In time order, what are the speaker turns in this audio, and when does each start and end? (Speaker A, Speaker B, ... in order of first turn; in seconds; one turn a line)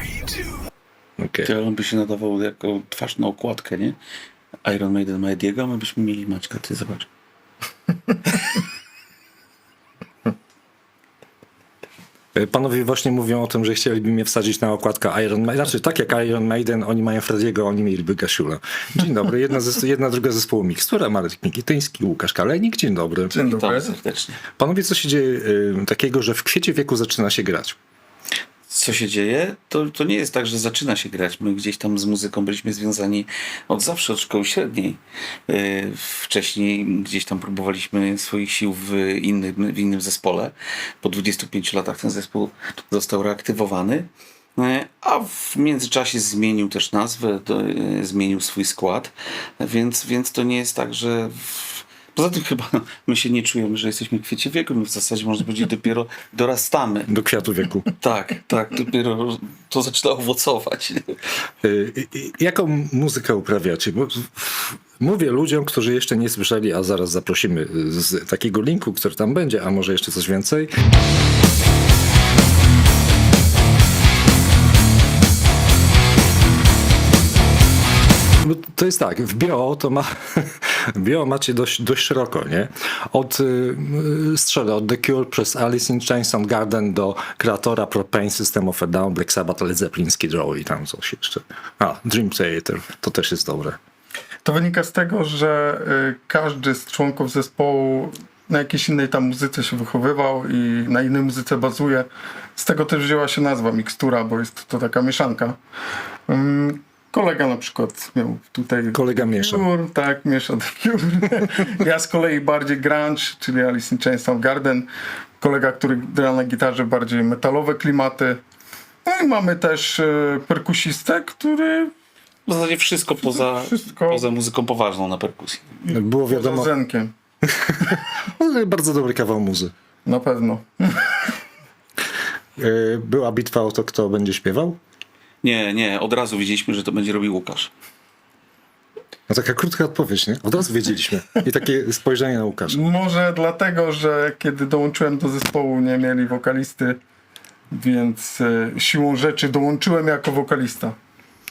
Speaker A: 1.2-1.5
Speaker B: 1.4-4.0
Speaker B: 4.6-7.1
Speaker A: 12.3-23.3
Speaker C: 23.3-24.0
Speaker B: 23.4-24.4
Speaker A: 24.6-27.8
Speaker B: 28.7-57.1
Speaker A: 57.1-57.9
Speaker B: 58.0-61.2
Speaker A: 61.6-70.7
Speaker A: 78.4-93.8
Speaker C: 94.4-105.6
Speaker C: 106.3-114.9
Speaker A: 108.9-109.7
Speaker C: 115.4-118.4
Speaker C: 119.0-121.9
Speaker B: 122.5-125.7
Speaker C: 123.3-124.3
Speaker C: 125.8-127.1
Speaker A: 125.9-126.7
Speaker A: 127.5-129.7
Speaker C: 130.1-131.4
Speaker A: 132.6-134.8
Speaker B: 135.4-137.7
Speaker A: 139.3-142.8
Speaker C: 142.7-147.0
Speaker C: 147.7-150.9